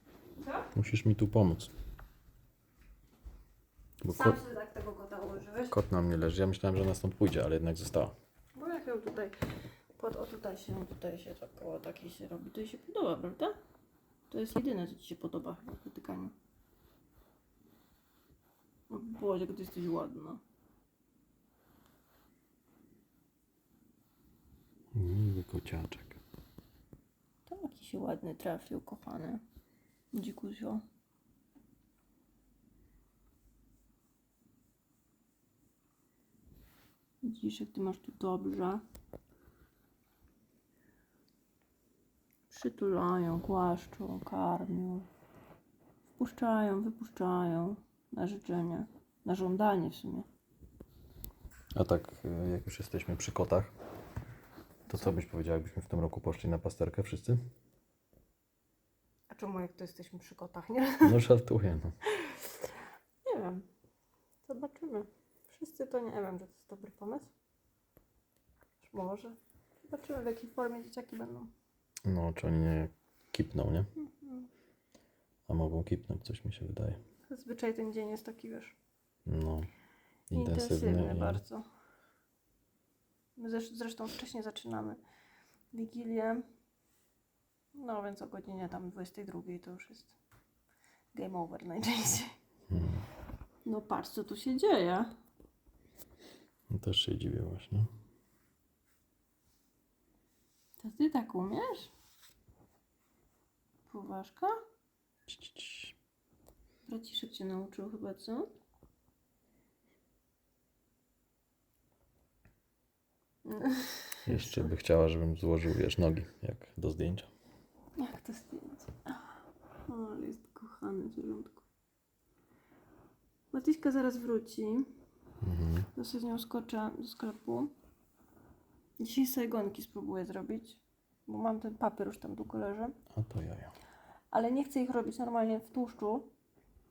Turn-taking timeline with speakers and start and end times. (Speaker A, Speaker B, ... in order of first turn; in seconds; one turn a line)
Speaker A: 0.7-1.7
Speaker A: 4.0-4.4
Speaker B: 4.1-5.8
Speaker A: 5.7-8.1
Speaker B: 8.6-9.4
Speaker B: 9.9-13.6
Speaker B: 14.3-16.3
Speaker B: 18.9-20.4
Speaker A: 24.9-26.2
Speaker B: 27.5-29.4
Speaker B: 30.1-30.8
Speaker B: 37.2-38.8
Speaker B: 42.5-45.1
Speaker B: 46.2-50.3
Speaker A: 51.8-53.7
Speaker A: 54.9-57.4
Speaker B: 59.3-61.2
Speaker A: 61.0-62.0
Speaker B: 62.1-62.5
Speaker B: 63.2-63.6
Speaker B: 64.5-67.3
Speaker B: 68.8-71.5
Speaker A: 72.0-73.9
Speaker B: 74.0-74.5
Speaker A: 75.5-77.0
Speaker B: 77.3-78.8
Speaker A: 79.3-79.7
Speaker A: 80.3-81.4
Speaker B: 80.3-81.7
Speaker B: 83.4-85.0
Speaker B: 85.7-86.5
Speaker B: 87.8-90.1
Speaker B: 91.1-92.3
Speaker A: 92.7-93.1
Speaker B: 93.7-95.1
Speaker A: 96.7-97.9
Speaker B: 100.8-101.9
Speaker B: 103.9-104.5
Speaker A: 105.3-106.0
Speaker B: 106.9-108.5
Speaker B: 113.5-114.6
Speaker A: 114.3-117.3
Speaker B: 118.0-121.6
Speaker B: 123.5-124.9
Speaker A: 125.4-125.9
Speaker B: 126.0-127.7
Speaker B: 129.0-132.9
Speaker A: 133.1-133.7
Speaker B: 134.3-136.3